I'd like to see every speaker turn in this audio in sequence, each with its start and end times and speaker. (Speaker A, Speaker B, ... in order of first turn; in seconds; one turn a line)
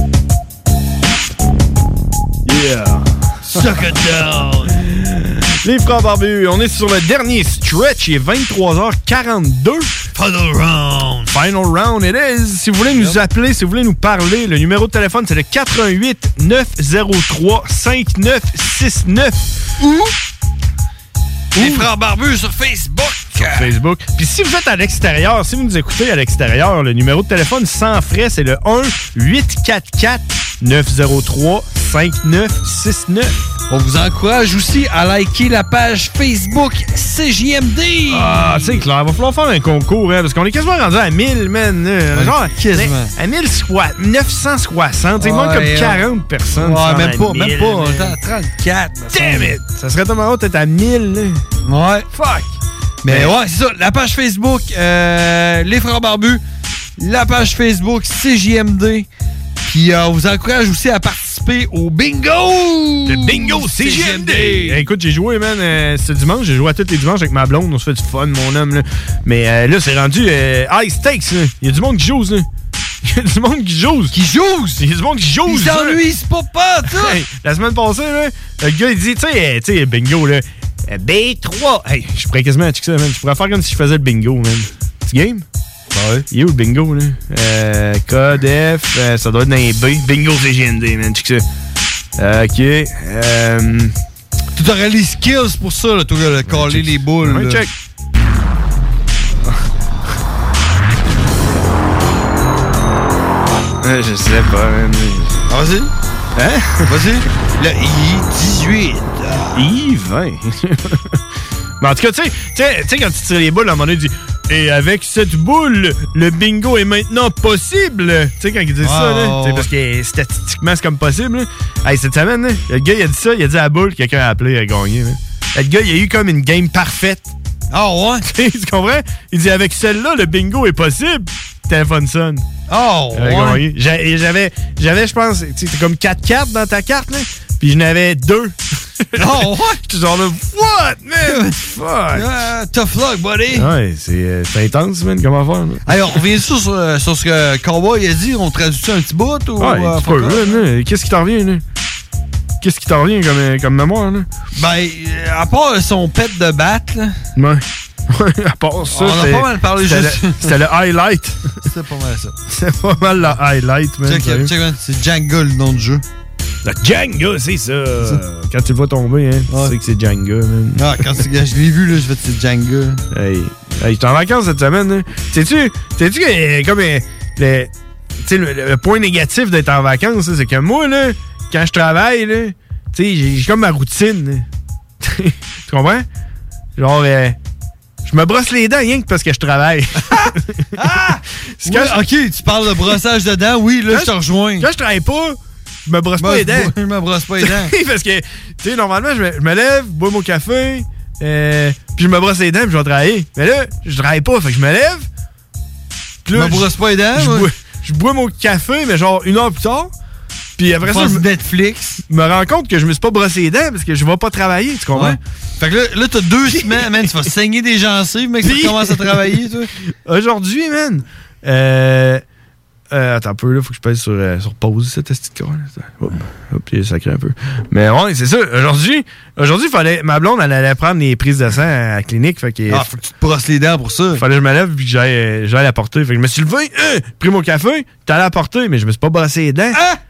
Speaker A: 2.5-4.1
Speaker B: 3.5-4.8
Speaker A: 4.8-9.9
Speaker B: 10.1-11.3
Speaker A: 11.3-19.5
Speaker B: 12.9-13.2
Speaker B: 19.8-20.1
Speaker B: 21.6-23.7
Speaker A: 21.6-21.9
Speaker A: 23.4-33.4
Speaker B: 33.7-38.8
Speaker A: 38.1-48.1
Speaker B: 42.1-43.1
Speaker B: 45.2-46.0
Speaker B: 46.5-49.6
Speaker A: 49.1-51.4
Speaker B: 51.6-52.1
Speaker A: 52.1-52.5
Speaker B: 53.0-56.4
Speaker A: 53.1-53.4
Speaker B: 57.0-59.1
Speaker B: 59.6-64.8
Speaker A: 63.1-72.5
Speaker A: 73.0-74.2
Speaker B: 74.1-74.8
Speaker A: 74.8-76.0
Speaker B: 75.5-77.2
Speaker A: 76.9-85.4
Speaker B: 85.9-86.3
Speaker A: 86.3-91.4
Speaker A: 92.2-93.9
Speaker B: 94.5-97.6
Speaker A: 96.5-97.7
Speaker A: 103.8-105.4
Speaker B: 105.5-105.9
Speaker A: 106.3-107.0
Speaker B: 106.9-109.7
Speaker A: 109.5-111.2
Speaker A: 111.8-127.3
Speaker B: 118.8-119.7
Speaker B: 127.7-128.3
Speaker A: 128.3-132.4
Speaker B: 132.7-133.6
Speaker A: 133.2-142.3
Speaker B: 139.2-139.8
Speaker B: 141.2-141.6
Speaker B: 142.1-143.7
Speaker A: 143.5-146.0
Speaker B: 145.8-150.6
Speaker A: 149.6-151.6
Speaker A: 152.6-154.3
Speaker B: 154.6-157.2
Speaker A: 157.3-161.6
Speaker B: 158.8-160.5
Speaker B: 161.6-162.3
Speaker A: 162.5-164.5
Speaker B: 164.1-166.0
Speaker A: 166.6-170.9
Speaker B: 169.5-169.7
Speaker B: 170.7-173.0
Speaker A: 173.1-177.7
Speaker A: 178.2-184.4
Speaker A: 185.0-186.1
Speaker A: 186.8-187.4
Speaker A: 188.1-190.6
Speaker B: 190.8-194.7
Speaker A: 191.6-192.0
Speaker A: 193.9-196.7
Speaker B: 196.2-197.7
Speaker A: 197.4-205.1
Speaker A: 206.2-209.9
Speaker B: 206.3-207.5
Speaker A: 210.6-211.2
Speaker B: 210.8-212.0
Speaker A: 212.1-215.2
Speaker B: 214.9-219.7
Speaker A: 218.4-222.2
Speaker A: 222.9-232.9
Speaker B: 232.7-234.2
Speaker A: 234.2-239.8
Speaker B: 239.7-240.0